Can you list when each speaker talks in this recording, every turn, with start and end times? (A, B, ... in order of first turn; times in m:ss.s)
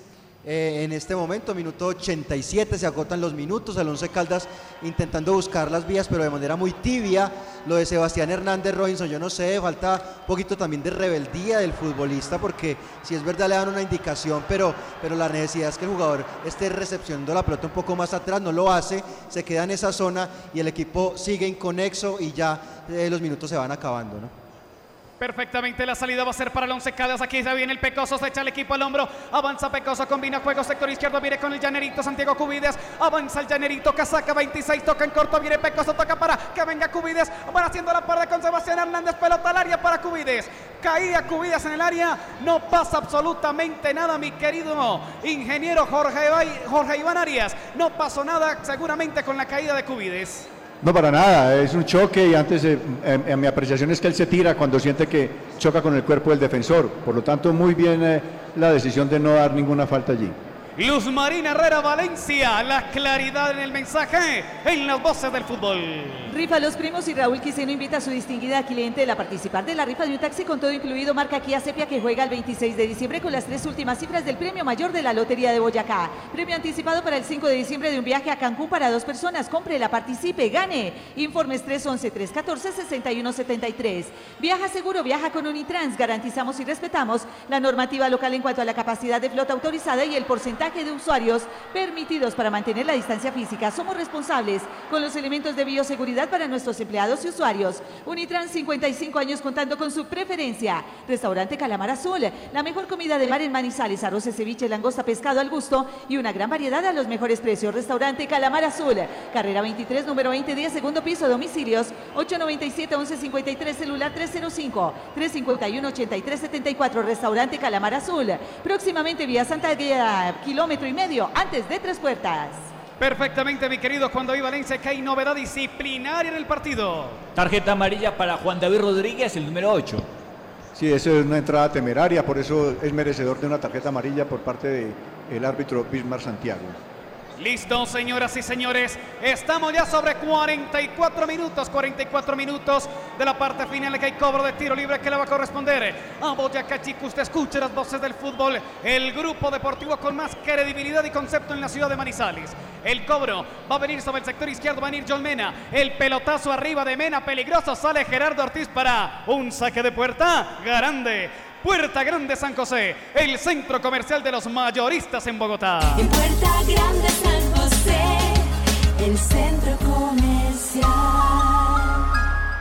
0:00.4-0:24.3 A
0:25.2-0:50.5 B
0:50.8-1:00.4 C
1:00.8-1:06.3 B
1:06.3-2:02.7 D
2:03.0-2:07.2 B
2:07.4-2:10.1 E
2:10.7-2:16.8 C
2:17.4-2:46.1 B
2:46.0-2:52.0 F